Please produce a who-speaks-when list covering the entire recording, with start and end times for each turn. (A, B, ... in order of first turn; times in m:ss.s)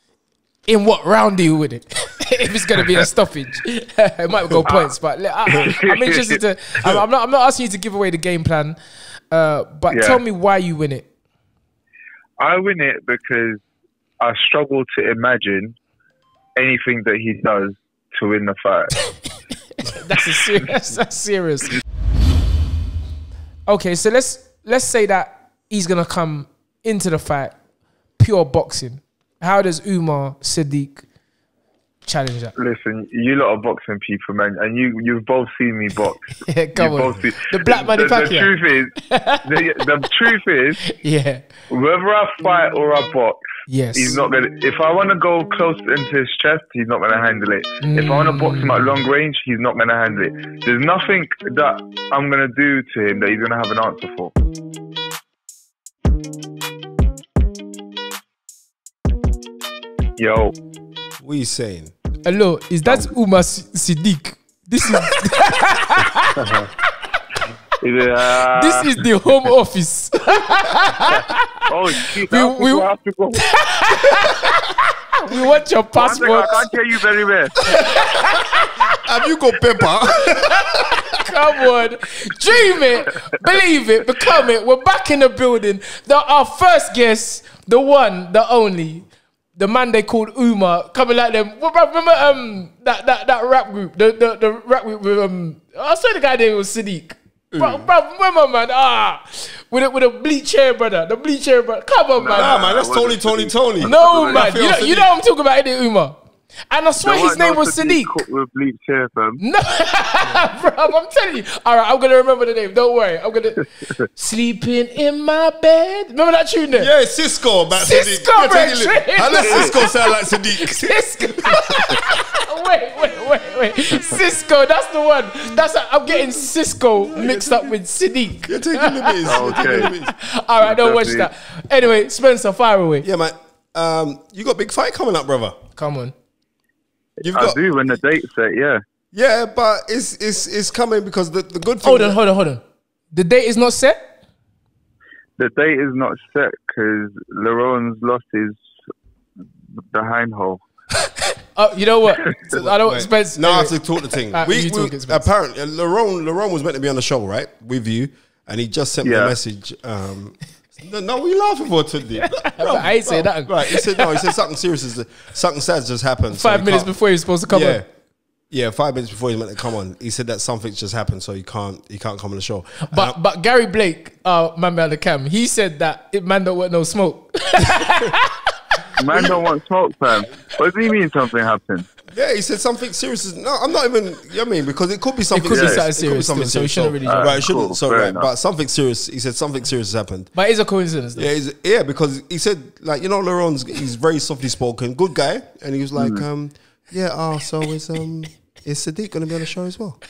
0:00.7-0:08.8 A
0:04.7-0:04.9 B
0:05.5-0:06.4 B
0:09.3-0:11.1 A
0:09.9-0:10.2 B
0:12.4-0:13.6 B
0:14.2-0:15.8 B
0:16.6-0:18.9 B
0:19.8-0:21.8 A
0:23.7-0:27.6 A
0:28.2-0:31.0 A
0:32.0-0:32.5 A
0:32.6-0:40.8 B
0:36.4-0:39.5 A
0:40.8-0:41.4 A
0:41.7-0:43.4 B
0:43.7-0:44.2 A
0:43.9-0:54.3 B
0:47.8-0:48.9 A
1:00.2-1:00.5 B
1:01.2-1:01.9 C
1:02.2-1:06.5 A
1:06.4-1:06.7 B
1:07.8-1:09.0 B
1:08.5-1:12.9 A
1:11.7-1:14.3 B
1:13.4-1:16.6 A
1:16.0-1:17.7 B
1:17.6-1:19.0 A
1:17.6-1:18.1 C
1:18.9-1:21.0 C
1:20.2-1:42.6 A
1:37.5-1:37.9 C
1:42.2-1:44.5 B
1:42.3-1:45.1 C
1:43.8-1:46.2 A
1:46.7-1:48.2 A
1:47.0-1:49.4 B
1:49.4-1:56.9 A
1:56.8-2:02.0 C
1:57.7-2:13.1 A
1:59.3-1:59.8 B
2:07.1-2:07.7 C
2:08.4-2:10.1 C
2:09.2-2:09.9 B
2:10.6-2:11.3 B
2:13.0-2:15.6 C
2:15.8-2:16.1 A
2:17.2-2:17.6 C
2:17.3-2:18.8 B
2:19.1-2:22.2 C
2:21.8-2:22.6 A
2:23.1-2:24.1 A
2:25.4-2:28.6 B
2:29.8-2:30.6 B
2:31.1-2:35.3 A
2:32.5-2:46.9 C
2:39.0-2:39.4 B
2:42.2-2:44.3 A
2:46.3-2:47.8 A
2:47.5-2:47.8 C
2:48.5-2:53.2 C
2:52.9-2:58.4 A
2:59.0-3:01.9 B
3:02.1-3:10.3 C
3:05.3-3:07.4 A
3:05.5-3:05.8 B
3:07.0-3:08.3 B
3:10.3-3:11.3 A
3:11.2-3:20.0 C
3:16.0-3:16.2 B